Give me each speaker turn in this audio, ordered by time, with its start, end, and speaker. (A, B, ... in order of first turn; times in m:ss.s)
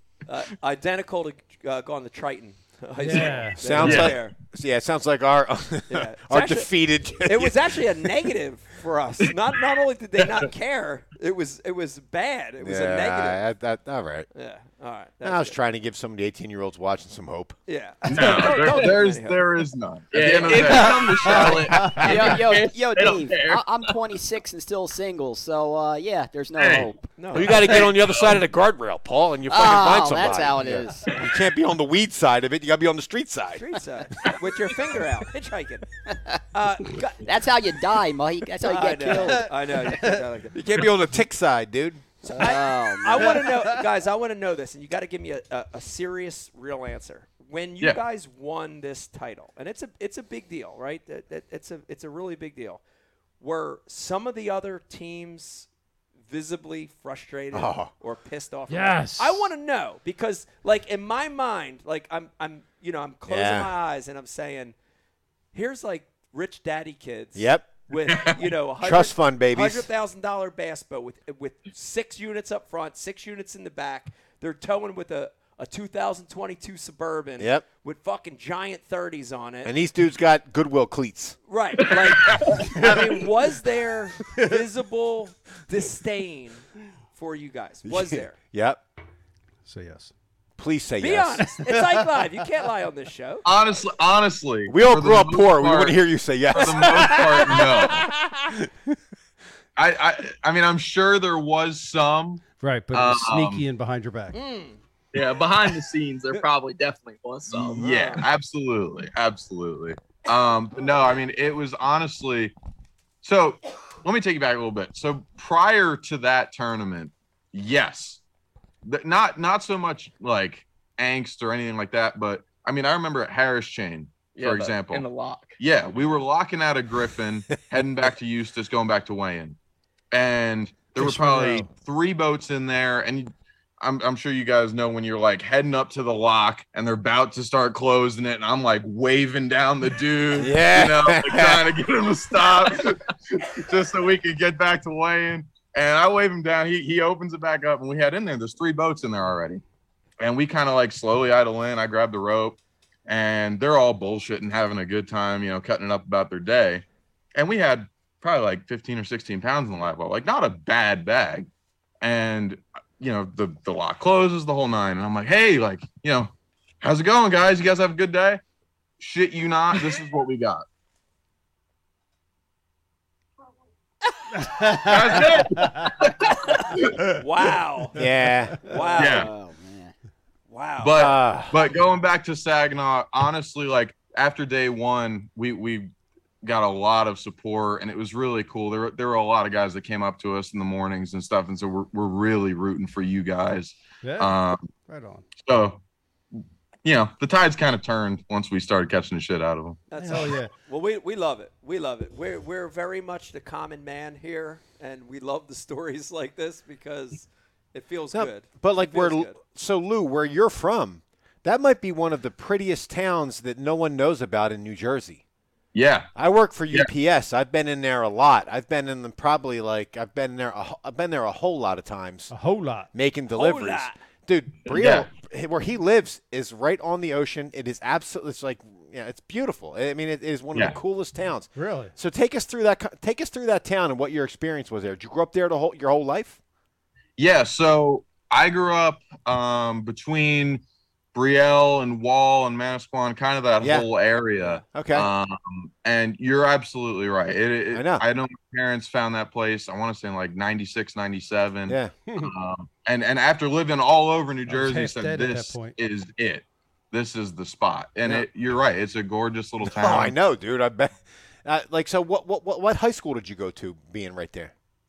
0:00.2-0:04.4 A
0:03.0-0:04.0 B
0:03.6-0:08.3 C
0:03.8-0:04.2 D
0:05.9-0:06.7 A
0:07.2-0:13.4 A
0:10.2-0:10.5 D
0:12.6-0:14.3 C
0:14.3-0:15.6 A
0:15.2-0:17.6 C
0:17.7-0:19.4 A
0:18.0-0:22.4 D
0:20.1-0:23.2 E
0:21.1-0:22.0 B
0:21.3-0:27.7 F
0:21.4-0:22.2 C
0:22.9-0:23.6 D
0:26.6-0:26.9 D
0:27.2-0:27.8 A
0:27.3-0:33.7 C
0:27.5-0:28.4 D
0:29.5-0:31.2 F
0:33.5-0:35.9 A
0:36.5-0:37.3 A
0:37.2-0:39.5 F
0:38.6-0:40.6 A
0:38.8-0:40.2 B
0:40.5-0:42.5 C
0:42.2-0:52.8 A
0:42.3-0:43.4 F
0:43.2-0:43.7 B
0:53.4-0:55.7 A
0:56.3-1:04.8 A
0:57.5-0:57.9 C
0:58.7-0:59.5 B
1:03.3-1:03.7 C
1:05.5-1:19.7 A
1:07.4-1:07.7 C
1:08.1-1:08.4 D
1:08.8-1:09.9 C
1:17.4-1:17.6 C
1:19.6-1:21.4 C
1:21.5-1:28.4 A
1:22.2-1:22.5 D
1:27.8-1:28.8 C
1:29.6-1:30.1 B
1:30.6-1:31.6 C
1:31.0-1:33.4 A
1:33.4-1:36.0 D
1:34.7-1:39.0 C
1:36.5-1:38.1 D
1:36.6-1:37.6 A
1:39.8-1:43.6 D
1:42.5-1:44.4 B
1:44.3-1:44.8 A
1:45.1-1:47.9 E
1:47.5-1:52.5 D
1:47.8-1:48.2 A
1:53.2-1:58.2 D
1:58.8-2:05.0 D
2:04.4-2:05.6 E
2:05.6-2:09.6 D
2:10.1-2:29.6 D
2:11.0-2:11.6 B
2:11.0-2:11.6 C
2:20.3-2:21.8 C
2:30.2-2:36.8 D
2:37.4-2:41.5 D
2:42.0-2:48.4 D
2:49.0-2:50.6 D
2:54.4-2:55.9 B
2:54.8-2:57.0 D
2:56.5-2:58.0 A
2:58.0-2:58.6 C
2:58.0-2:58.8 B
2:58.6-2:59.3 A
2:58.7-2:59.9 F
2:59.0-2:59.3 D
3:00.5-3:01.0 A
3:00.8-3:14.7 D
3:01.0-3:01.6 C
3:14.0-3:14.3 B
3:14.8-3:15.3 B
3:15.4-3:15.8 D
3:16.8-3:19.9 D
3:19.9-3:29.4 A
3:20.0-3:20.5 B
3:28.1-3:35.2 C
3:35.7-3:36.1 D
3:36.1-3:42.3 C
3:42.3-3:42.9 B
3:42.9-3:56.4 C
3:43.3-3:44.0 A
3:44.7-3:45.1 D
3:51.5-3:51.9 B
3:57.2-4:00.6 D
4:01.1-4:20.1 D
4:03.6-4:03.9 C
4:04.4-4:04.6 A
4:04.7-4:05.1 C
4:07.7-4:08.0 C
4:11.7-4:12.0 C
4:14.5-4:15.8 B
4:19.6-4:24.5 C